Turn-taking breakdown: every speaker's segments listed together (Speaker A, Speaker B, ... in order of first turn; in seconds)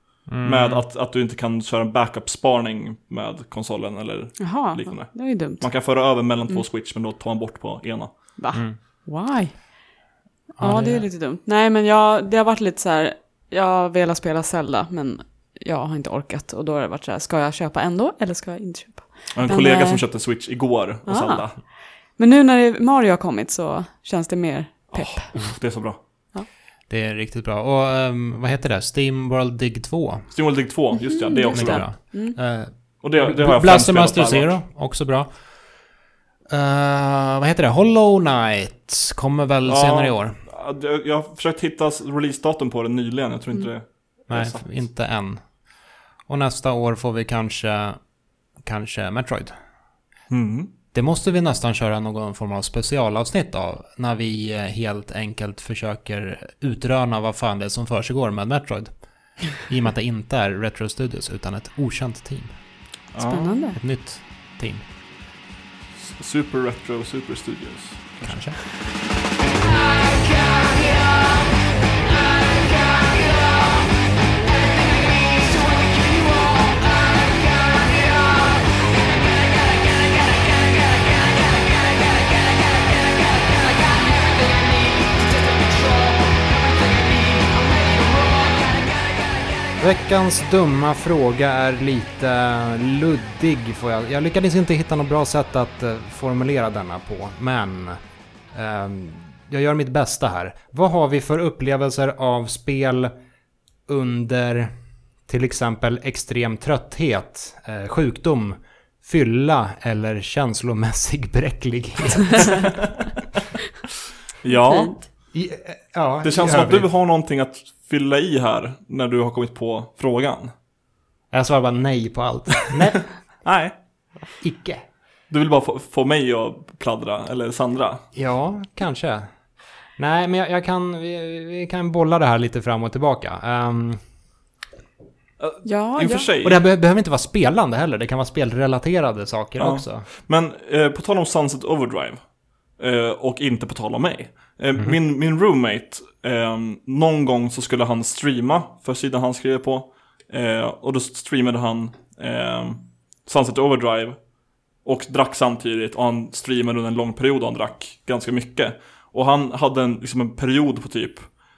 Speaker A: 0.3-0.8, 8.5-8.8, 10.6-11.1, 26.9-30.3, 31.5-35.3, 36.5-40.4, 44.3-45.4, 46.3-48.0, 48.6-49.5, 50.9-58.9, 59.5-62.5, 63.8-64.8, 68.2-68.6, 89.8-98.0, 98.5-103.1, 103.9-104.7, 105.3-112.7, 115.3-116.9, 121.3-123.0, 124.4-124.8, 128.1-129.3, 130.0-134.0, 136.4-140.1
Speaker B: 0.4-8.4, 19.3-21.5, 24.9-26.0, 30.3-32.1, 33.0-34.5, 39.6-44.8, 50.3-50.7, 63.1-63.5, 66.0-68.4, 114.4-115.0, 116.2-120.5, 123.4-123.7, 125.3-128.0, 135.4-136.6, 139.6-142.2, 142.8-154.2, 154.8-161.3
Speaker C: 4.4-5.7, 8.4-9.6, 10.6-20.0, 21.1-21.5, 22.2-25.3, 30.9-32.4, 63.2-63.8, 114.5-115.0, 135.6-136.3